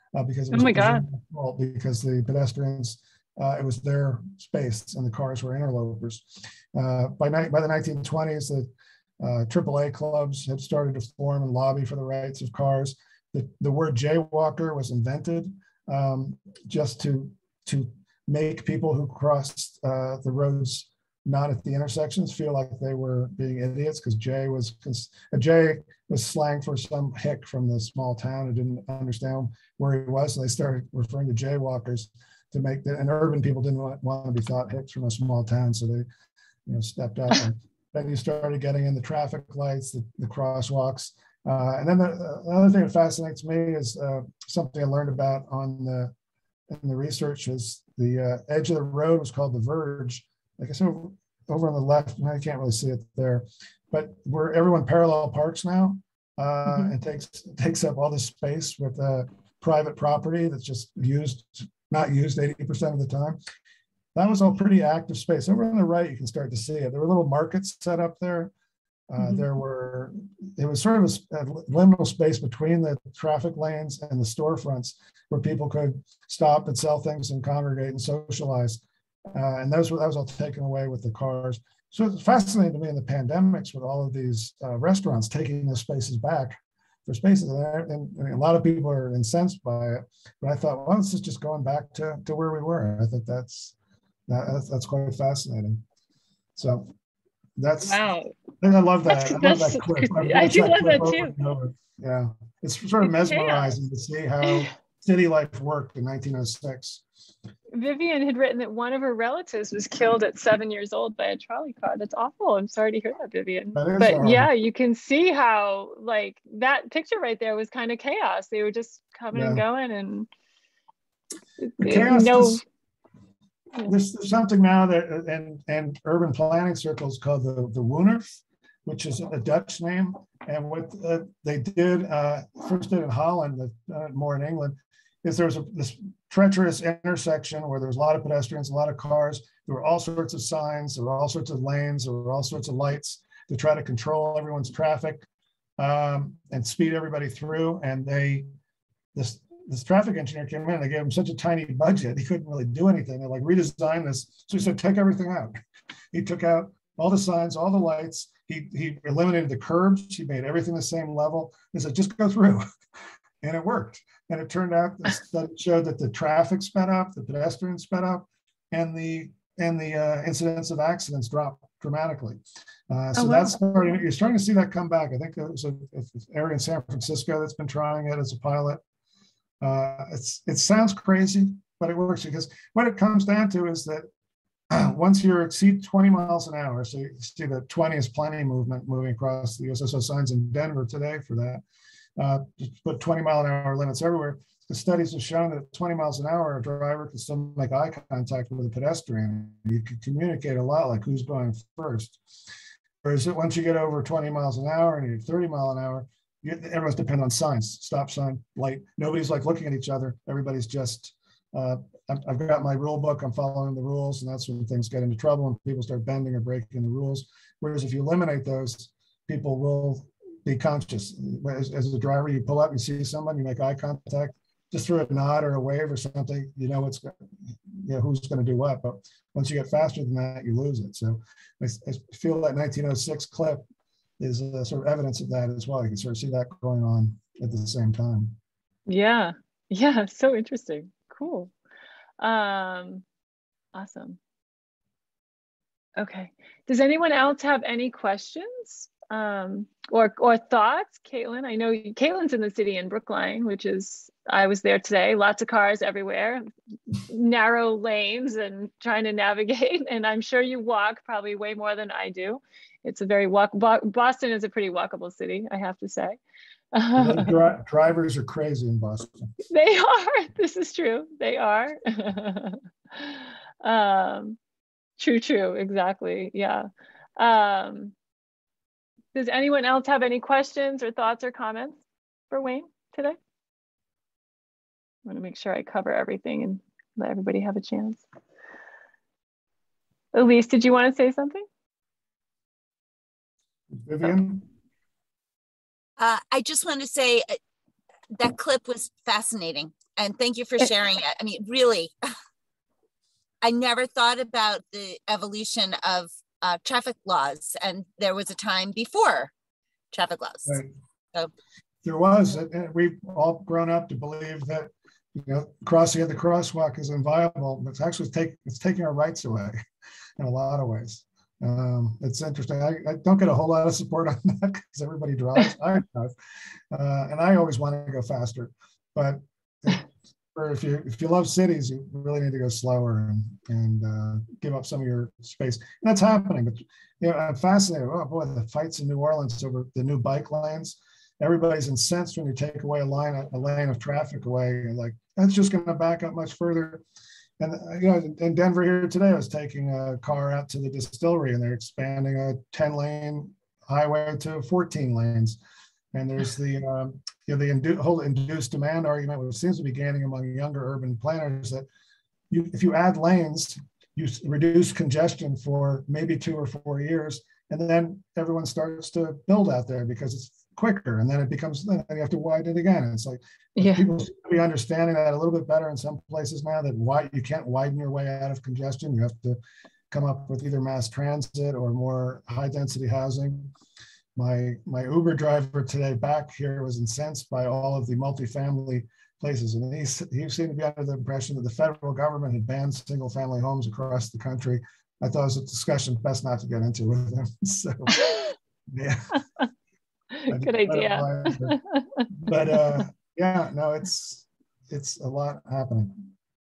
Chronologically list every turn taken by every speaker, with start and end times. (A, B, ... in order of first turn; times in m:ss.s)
0:00.2-0:08.7 A
0:00.5-0:01.0 B
0:09.2-0:36.0 A
0:36.7-0:46.1 A
0:46.7-1:03.4 A
1:04.2-1:08.5 A
1:09.1-1:33.8 A
1:09.2-1:09.4 B
1:34.3-1:35.8 A
1:36.6-1:36.9 A
1:37.6-1:38.0 A
1:37.8-1:38.3 B
1:38.6-1:47.0 A
1:39.1-1:41.3 B
1:43.0-1:43.7 B
1:47.7-2:00.3 B
1:53.8-1:54.5 A
1:59.3-1:59.6 A
2:01.6-2:02.6 B
2:01.8-2:02.6 A
2:03.8-2:25.3 A
2:25.8-2:28.5 A
2:29.2-2:35.6 A
2:36.1-2:42.6 A
2:43.4-2:58.8 A
2:53.2-2:53.6 B
2:59.6-3:04.0 A
3:04.7-3:11.6 A
3:12.2-3:22.2 A
3:23.0-3:47.1 A
3:47.7-3:53.6 A
3:54.2-3:58.4 A
3:58.9-4:01.5 B
4:02.2-4:03.0 B
4:03.8-4:04.2 B
4:06.0-4:26.2 B
4:26.7-4:27.3 B
4:27.0-4:29.3 A
4:29.5-4:34.4 B
4:35.0-4:36.7 B
4:37.2-4:37.9 B
4:39.1-4:43.2 B
4:45.1-4:48.0 B
4:50.1-4:51.4 B
4:53.7-4:54.5 A
4:56.0-4:57.4 C
4:58.1-5:01.9 C
5:03.4-5:09.3 C
5:09.9-5:10.6 C
5:11.8-5:19.6 A
5:20.2-5:26.1 A
5:26.7-5:46.8 A
5:47.4-5:55.4 A
5:55.9-6:01.6 A
6:02.3-6:19.4 A
6:13.6-6:13.8 B
6:19.9-6:23.5 A
6:24.2-6:38.0 A
6:37.9-6:38.2 B
6:38.7-6:39.2 A
6:40.2-6:42.1 B
6:40.3-6:41.6 A
6:42.2-6:46.1 A